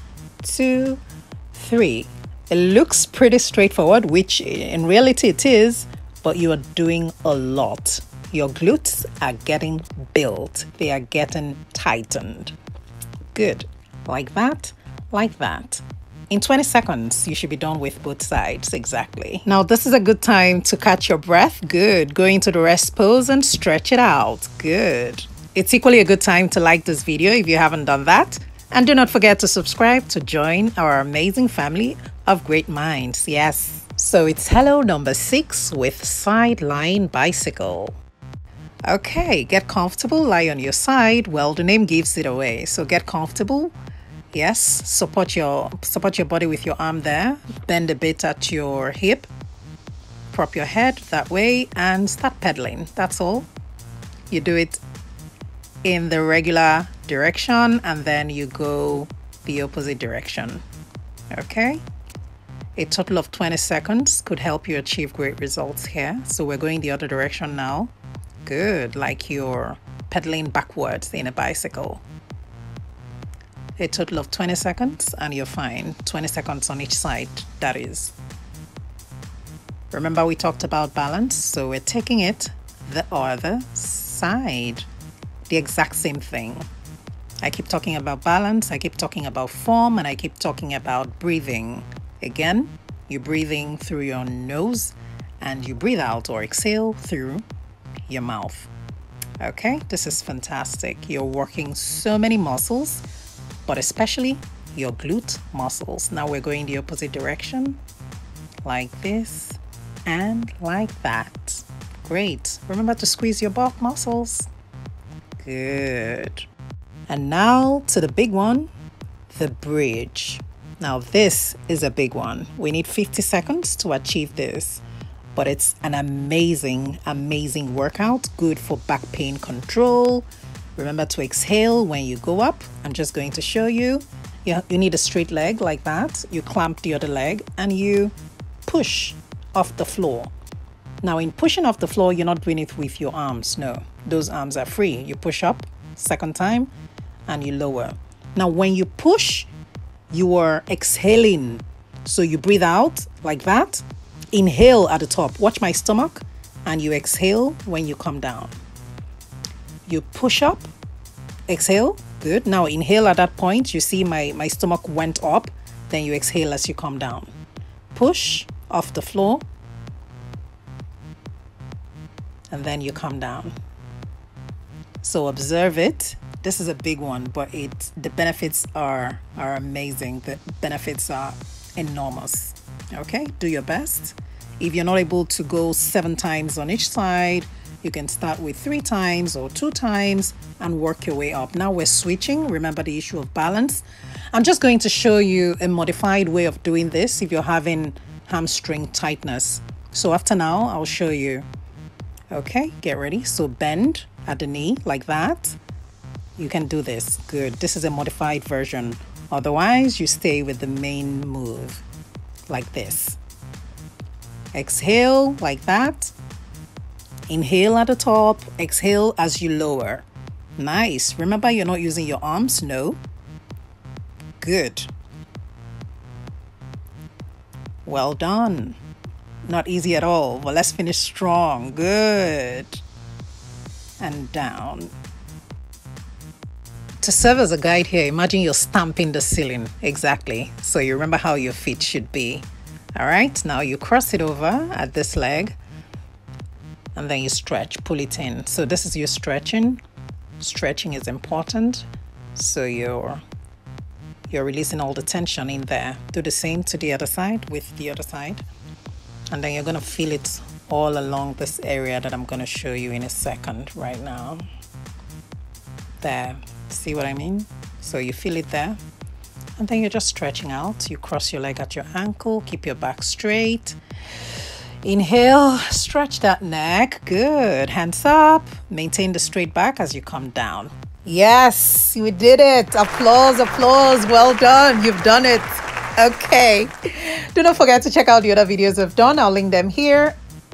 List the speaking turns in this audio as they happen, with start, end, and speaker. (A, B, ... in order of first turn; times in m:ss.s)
0:00.4-0:12.6 A
0:13.3-0:38.0 A
0:38.9-0:43.7 A
0:44.3-0:49.3 A
0:50.3-0:53.5 A
0:54.3-0:54.8 A
0:55.8-1:00.6 A
1:01.3-1:01.8 A
1:02.8-1:07.9 A
1:08.4-1:12.0 A
1:13.8-1:18.1 A
1:19.9-1:24.9 A
1:25.5-1:26.7 A
1:27.4-1:37.4 A
1:38.1-1:38.7 A
1:39.4-1:43.0 A
1:43.7-1:47.8 A
1:48.6-1:54.5 A
1:55.4-1:56.5 A
1:57.1-1:58.7 A
1:59.3-2:04.8 A
2:05.4-2:18.1 A
2:18.7-2:20.3 A
2:21.0-2:26.7 A
2:27.3-2:29.5 A
2:30.1-2:38.6 A
2:39.9-2:40.7 A
2:41.5-2:47.3 A
2:47.9-2:49.4 A
2:52.5-2:53.5 A
2:55.0-3:21.5 A
3:22.3-3:25.6 A
3:26.4-3:31.8 A
3:32.5-3:33.2 A
3:34.5-3:36.1 A
3:37.3-3:40.0 A
3:40.6-3:43.0 A
3:44.4-3:44.9 A
3:47.8-3:48.8 A
3:49.5-3:52.8 A
3:54.0-3:54.9 A
3:57.0-4:05.6 A
4:07.0-4:09.8 A
4:10.4-4:13.2 A
4:14.3-4:18.5 A
4:19.3-4:24.4 A
4:26.0-4:28.8 A
4:29.6-4:33.8 A
4:34.8-4:50.2 A